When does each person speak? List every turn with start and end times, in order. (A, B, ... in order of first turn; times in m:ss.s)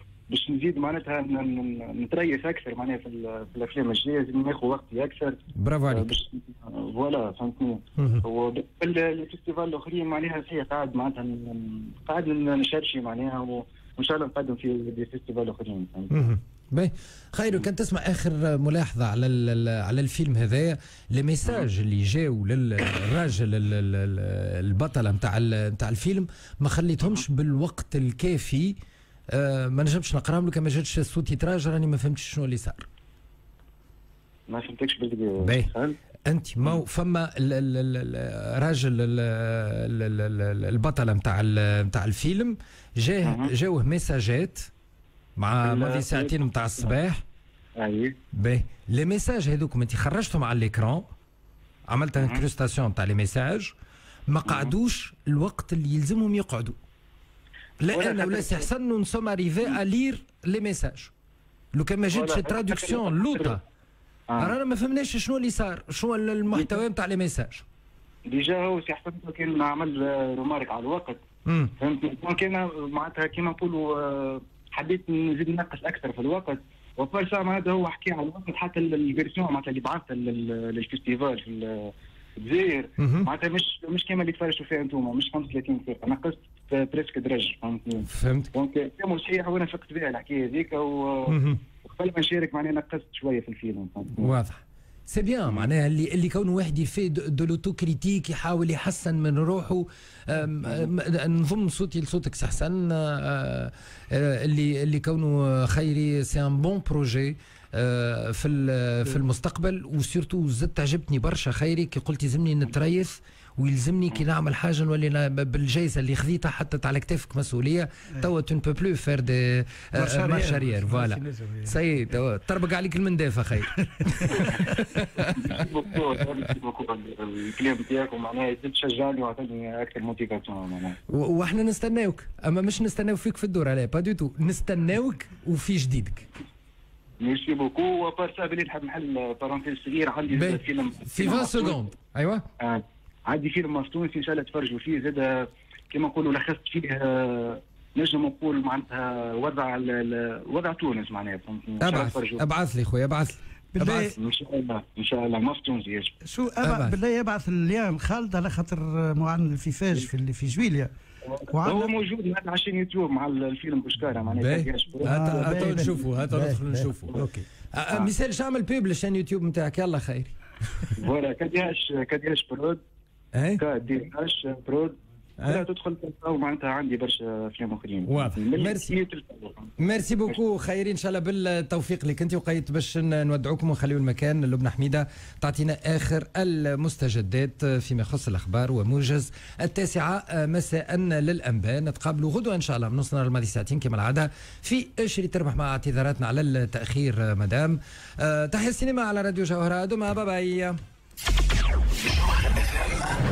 0:00.3-0:16.3 A
0:05.6-0:06.1 B
0:08.0-0:08.2 B
0:16.1-0:28.8 B
0:29.3-0:32.9 B
0:34.5-0:36.0 A
0:35.4-0:35.7 B
0:36.3-0:44.7 B
0:43.2-0:43.5 A
0:45.4-0:47.2 B
0:45.6-0:46.9 A
0:47.8-0:48.2 A
0:48.3-0:51.0 B
0:51.9-0:53.7 B
0:52.1-0:52.4 A
0:54.3-0:56.8 B
0:54.4-0:54.7 A
0:57.8-1:01.1 B
0:57.9-0:58.7 A
1:01.7-1:03.6 B
1:02.1-1:03.6 A
1:04.3-1:04.5 A
1:04.4-1:07.6 B
1:08.3-1:11.2 A
1:11.5-1:11.7 B
1:11.8-1:34.3 A
1:23.0-1:23.3 B
1:28.1-1:28.5 B
1:31.3-1:31.6 B
1:34.2-2:05.6 B
1:59.9-2:01.8 C
2:03.8-2:04.6 C
2:05.2-2:11.0 A
2:11.1-2:16.2 B
2:17.2-2:21.8 A
2:20.3-2:22.4 B
2:22.6-2:25.4 A
2:25.9-2:32.4 A
2:31.8-2:34.1 B
2:33.7-2:34.1 C
2:34.2-2:36.1 A
2:36.2-2:40.9 C
2:36.6-2:36.9 B
2:41.3-2:46.0 A
2:41.5-2:41.9 C
2:44.3-2:47.2 B
2:45.0-2:47.4 C
2:47.7-2:50.9 B
2:51.0-2:52.8 A
2:53.3-2:53.6 B
2:53.6-2:59.7 A
2:55.4-2:55.6 B
2:58.0-2:58.9 B
2:59.8-3:20.8 B